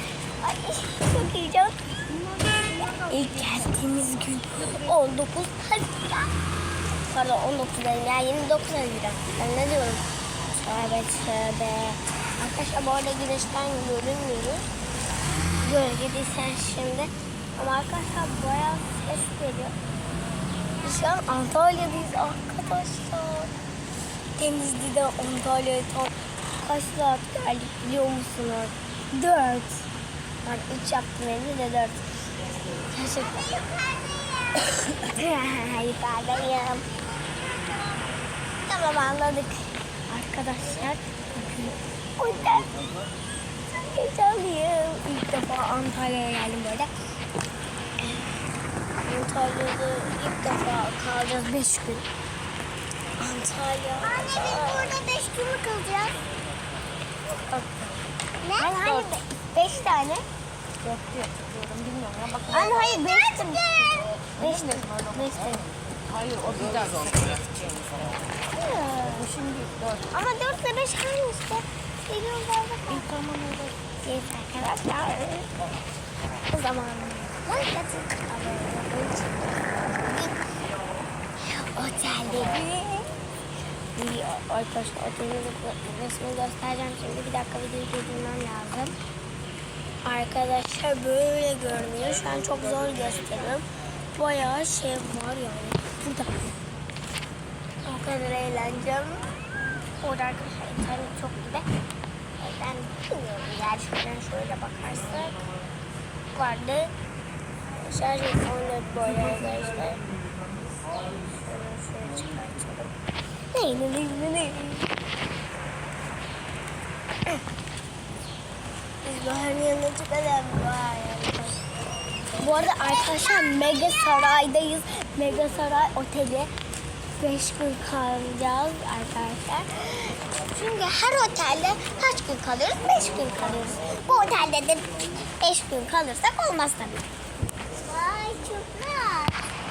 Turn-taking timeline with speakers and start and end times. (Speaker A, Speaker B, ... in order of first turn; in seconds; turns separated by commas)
Speaker A: 0.4-1.8, Speaker B: 2.2-3.6, Speaker A: 3.0-6.3, Speaker A: 7.1-14.6, Speaker A: 15.6-19.7, Speaker A: 20.8-23.5, Speaker A: 24.4-29.9, Speaker A: 30.4-32.0, Speaker A: 32.9-33.5, Speaker C: 33.1-34.7, Speaker A: 34.9-36.9, Speaker C: 36.4-38.0, Speaker A: 38.6-42.8, Speaker A: 43.8-46.9, Speaker A: 48.0-48.4, Speaker A: 49.0-52.1, Speaker A: 53.2-54.9, Speaker C: 54.0-56.2, Speaker A: 57.4-58.0, Speaker C: 58.4-59.2, Speaker A: 58.6-60.3, Speaker B: 60.8-62.7, Speaker A: 62.5-65.7, Speaker C: 62.6-64.2, Speaker B: 64.3-68.2, Speaker A: 68.5-69.3, Speaker B: 69.1-70.0, Speaker A: 70.1-73.1, Speaker B: 72.9-73.8, Speaker A: 74.0-75.5, Speaker A: 76.5-80.0, Speaker C: 80.1-80.3, Speaker A: 81.4-82.7, Speaker C: 82.5-83.0, Speaker A: 84.0-89.0, Speaker A: 90.0-96.3, Speaker A: 97.8-99.3, Speaker A: 100.0-101.7, Speaker A: 102.4-105.4, Speaker A: 106.3-106.9, Speaker A: 107.8-110.0, Speaker A: 111.2-112.9, Speaker A: 113.5-114.9, Speaker A: 119.0-121.6, Speaker A: 122.4-126.5, Speaker C: 122.8-124.5, Speaker A: 127.2-134.2, Speaker C: 134.1-134.8, Speaker A: 135.4-137.1, Speaker C: 137.8-139.4